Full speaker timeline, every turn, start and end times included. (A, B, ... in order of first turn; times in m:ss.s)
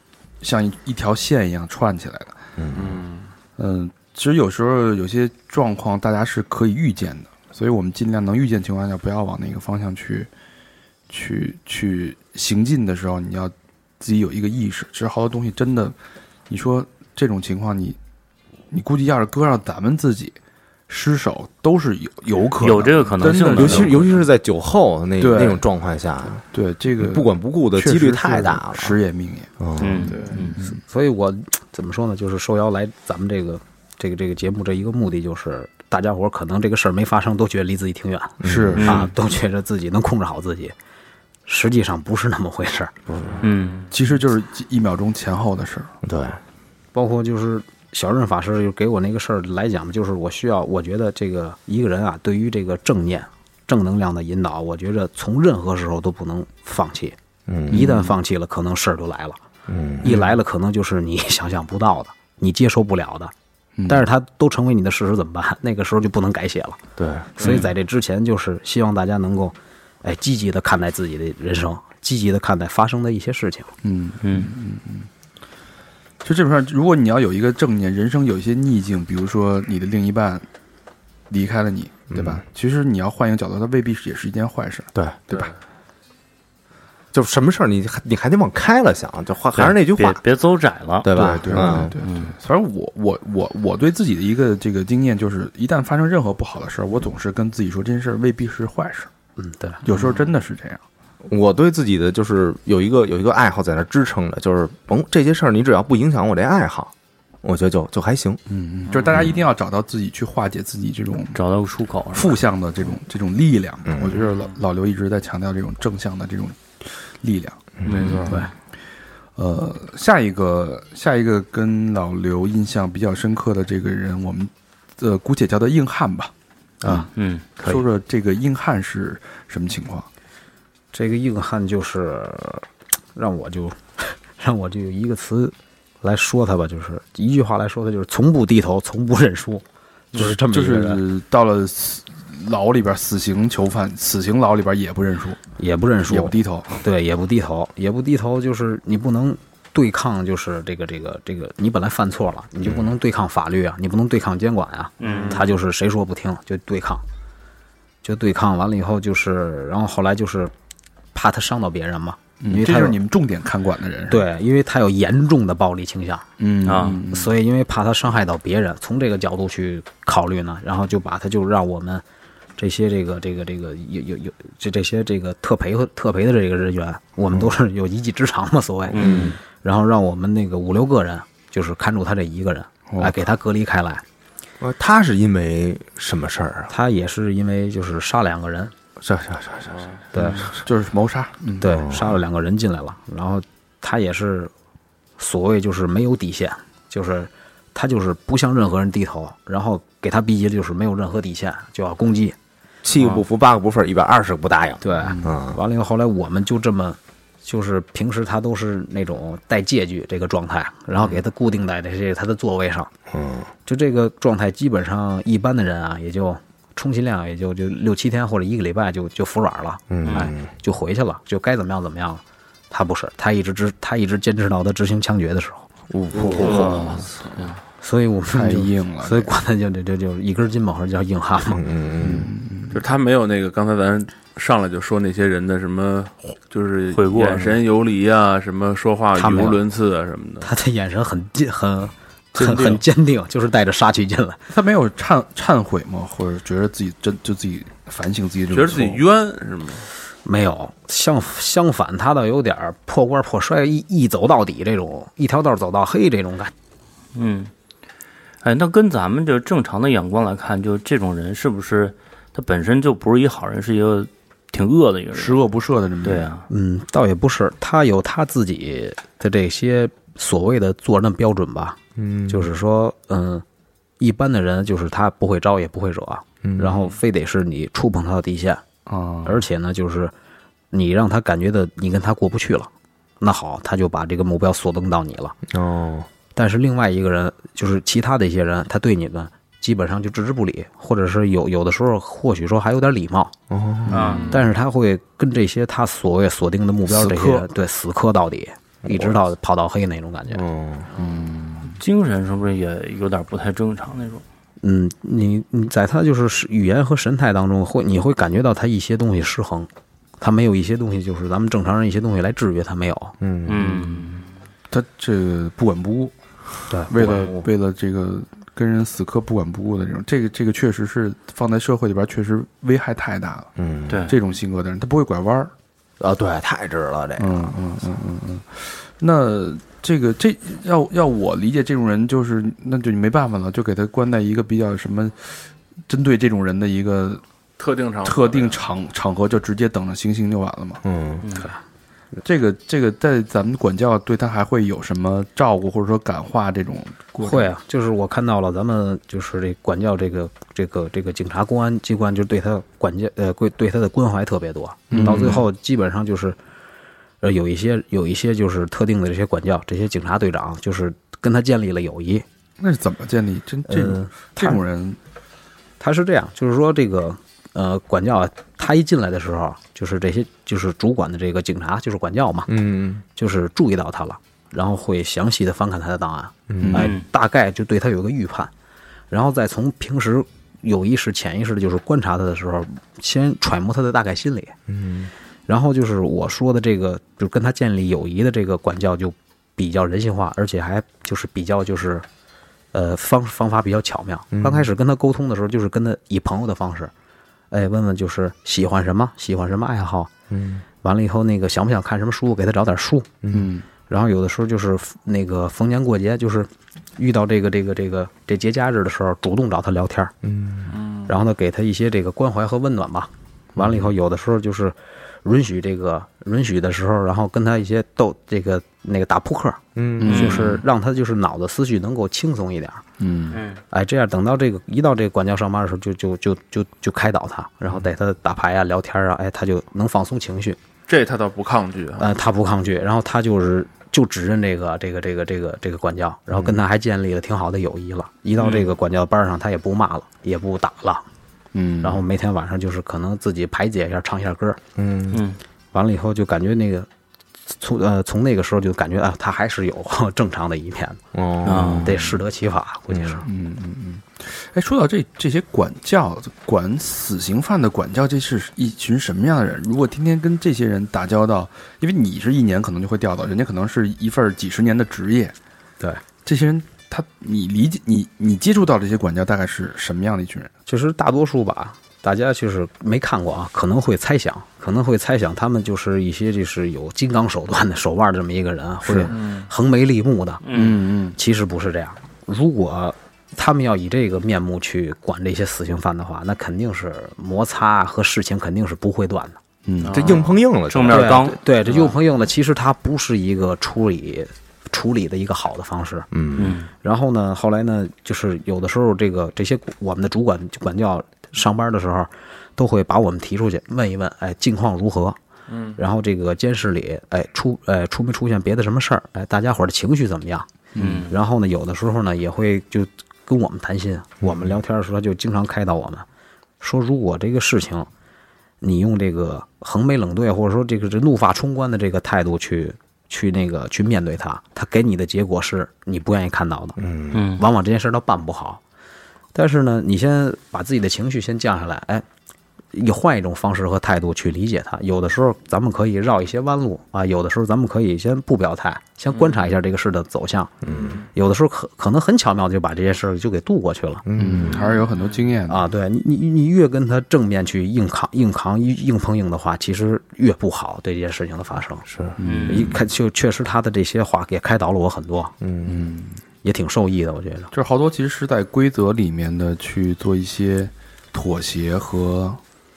0:00.4-0:02.4 A
0:02.6-0:03.0 B
0:02.7-0:03.3 C
0:03.6-0:10.3 A
0:11.1-0:16.0 A
0:16.5-0:18.0 A
0:18.7-0:20.4 A
0:20.9-0:24.2 A
0:22.6-0:24.1 D
0:23.4-0:26.4 B
0:25.2-0:25.6 A
0:26.5-0:30.8 A
0:27.0-0:29.0 B
0:29.6-0:30.1 B
0:29.8-0:30.6 D
0:30.9-0:40.7 E
0:38.4-0:39.0 B
0:38.4-0:39.1 A
0:38.8-0:39.1 D
0:41.4-0:43.0 E
0:43.1-0:43.4 B
0:43.4-0:43.9 D
0:43.9-0:45.9 A
0:46.0-0:46.4 B
0:46.9-0:57.2 E
0:57.5-0:57.9 B
0:57.7-0:59.4 E
0:57.7-0:58.1 A
0:59.7-1:00.1 B
1:00.0-1:03.3 E
1:03.8-1:04.1 A
1:03.9-1:06.8 E
1:07.0-1:07.4 B
1:07.4-1:13.7 E
1:07.4-1:07.7 D
1:13.8-1:15.1 A
1:14.2-1:14.5 D
1:16.2-1:20.4 A
1:21.3-1:25.5 A
1:22.1-1:22.4 B
1:27.1-1:30.2 B
1:29.6-1:32.4 D
1:31.0-1:31.9 B
1:31.1-1:39.1 A
1:39.4-1:39.8 E
1:39.8-1:40.8 A
1:41.2-1:46.9 B
1:47.4-1:48.4 B
1:48.5-1:51.4 A
1:48.9-1:49.3 C
1:51.3-1:52.4 D
1:52.1-1:58.5 A
1:53.9-1:54.2 B
1:54.2-1:54.5 C
1:57.8-1:58.2 B
1:59.4-2:06.3 A
2:06.8-2:07.1 B
2:07.1-2:07.5 D
2:07.6-2:10.1 A
2:10.9-2:21.0 E
2:20.1-2:25.4 A
2:25.6-2:37.0 E
2:26.1-2:26.8 A
2:35.0-2:35.4 D
2:35.0-2:35.4 C
2:38.0-2:40.5 E
2:41.1-2:43.0 E
2:42.4-2:44.2 A
2:44.1-2:46.3 E
2:46.4-2:47.3 A
2:46.6-2:47.0 D
2:47.0-2:52.0 E
2:52.6-3:04.0 E
2:58.9-2:59.4 D
2:59.0-2:59.4 B
3:02.9-3:03.2 A
3:04.6-3:06.7 B
3:06.7-3:08.7 E
3:09.0-3:10.5 B
3:10.1-3:10.5 E
3:10.2-3:11.8 A
3:11.6-3:14.5 E
3:11.7-3:12.2 B
3:15.2-3:22.4 E
3:22.8-3:25.6 B
3:24.8-3:32.9 E
3:25.0-3:25.3 A
3:33.1-3:33.5 B
3:33.7-3:45.7 E
3:39.9-3:40.5 B
3:40.0-3:40.4 D
3:45.9-3:46.7 B
3:46.2-3:46.9 A
3:46.4-3:47.6 D
3:46.4-3:46.7 E
3:47.3-3:47.5 C
3:47.8-3:51.6 E
3:48.3-3:49.3 A
3:51.5-3:52.3 B
3:52.0-3:52.8 A
3:52.7-4:00.5 C
3:56.9-3:57.6 D
3:59.1-3:59.6 E
4:00.4-4:04.4 E
4:02.4-4:02.8 D
4:04.5-4:09.0 A
4:08.5-4:09.9 C
4:10.2-4:16.5 E
4:17.1-4:17.5 D
4:18.4-4:25.4 D
4:25.1-4:26.3 A
4:26.0-4:26.5 D
4:26.5-4:31.8 E
4:32.0-4:32.5 B
4:32.3-4:33.4 E
4:34.0-4:38.6 E
4:36.4-4:36.8 B
4:38.9-4:39.4 A
4:39.2-4:40.1 E
4:40.7-4:45.4 E
4:45.5-4:46.1 B
4:46.4-4:53.3 E
4:53.5-4:54.2 B
4:53.9-4:54.2 A
4:53.9-4:54.4 D
4:53.9-4:54.4 C
4:54.3-5:00.4 E
4:56.9-4:57.4 A
4:58.8-4:59.2 B
5:00.3-5:00.9 B
5:01.0-5:01.8 A
5:01.8-5:04.2 D
5:04.6-5:13.2 E
5:13.2-5:13.8 B
5:13.4-5:14.3 D
5:14.7-5:16.1 A
5:16.7-5:17.2 E
5:16.9-5:23.5 A
5:17.0-5:17.5 B
5:23.6-5:24.0 B
5:23.9-5:24.1 D
5:24.1-5:25.5 A
5:26.0-5:27.6 B
5:27.2-5:37.2 A
5:37.6-5:38.6 C
5:38.0-5:40.8 A
5:40.8-5:41.2 B
5:42.2-5:47.5 A
5:47.2-5:56.4 E
5:54.9-5:55.4 A
5:57.2-6:02.3 E
6:02.6-6:05.0 A
6:03.7-6:04.6 E
6:05.8-6:12.5 E
6:12.5-6:13.0 B
6:13.1-6:18.5 E
6:16.5-6:16.9 B
6:16.7-6:17.0 D
6:19.1-6:24.6 E
6:24.7-6:25.1 B
6:25.5-6:32.1 E
6:32.7-6:36.9 E
6:34.3-6:34.7 B
6:37.5-6:40.1 E
6:40.3-6:40.6 B
6:40.8-6:43.1 E
6:43.2-6:43.5 B
6:43.3-6:43.7 A
6:43.9-6:50.1 E
6:50.2-6:50.7 B
6:50.7-6:51.1 C
6:51.1-7:02.8 E
6:59.7-7:00.4 B
7:00.0-7:00.6 A
7:00.1-7:00.5 D
7:03.0-7:03.4 A
7:03.3-7:03.6 D
7:03.7-7:10.6 E
7:10.9-7:12.1 C
7:12.0-7:21.0 E
7:18.4-7:18.7 D
7:21.5-7:22.0 A
7:21.8-7:24.6 E
7:24.8-7:25.2 B
7:25.1-7:25.4 D
7:25.7-7:26.9 E
7:27.5-7:31.0 E
7:31.1-7:32.0 B
7:31.4-7:32.0 D
7:31.7-7:33.3 E
7:31.9-7:32.1 A
7:33.2-7:45.4 A
7:46.2-7:50.5 A
7:50.7-8:00.4 E
7:58.8-7:59.1 A
7:59.1-7:59.5 C
8:00.4-8:00.8 D
8:00.5-8:01.2 A
8:01.2-8:09.4 E
8:09.6-8:10.2 A
8:09.8-8:10.4 C
8:09.9-8:11.3 B
8:10.7-8:11.4 D
8:10.9-8:16.1 E
8:16.1-8:16.6 B
8:16.4-8:16.7 D
8:16.8-8:25.2 E
8:25.5-8:25.8 C
8:25.8-8:30.5 E
8:30.7-8:31.1 A
8:30.8-8:31.1 D
8:31.1-8:36.1 E
8:36.6-8:37.9 E
8:38.6-8:48.6 E
8:46.8-8:47.2 B
8:47.1-8:47.4 D
8:49.3-8:52.0 E
8:52.7-9:00.5 E
9:00.6-9:01.0 B
9:01.1-9:04.0 E
9:04.1-9:04.6 B
9:04.2-9:05.6 A
9:04.6-9:05.2 C
9:05.5-9:11.9 E
9:11.9-9:12.1 B
9:12.2-9:12.8 A
9:12.2-9:12.7 D
9:12.5-9:15.3 E
9:15.4-9:15.7 B
9:15.7-9:16.2 A
9:16.4-9:17.5 E
9:17.5-9:22.4 A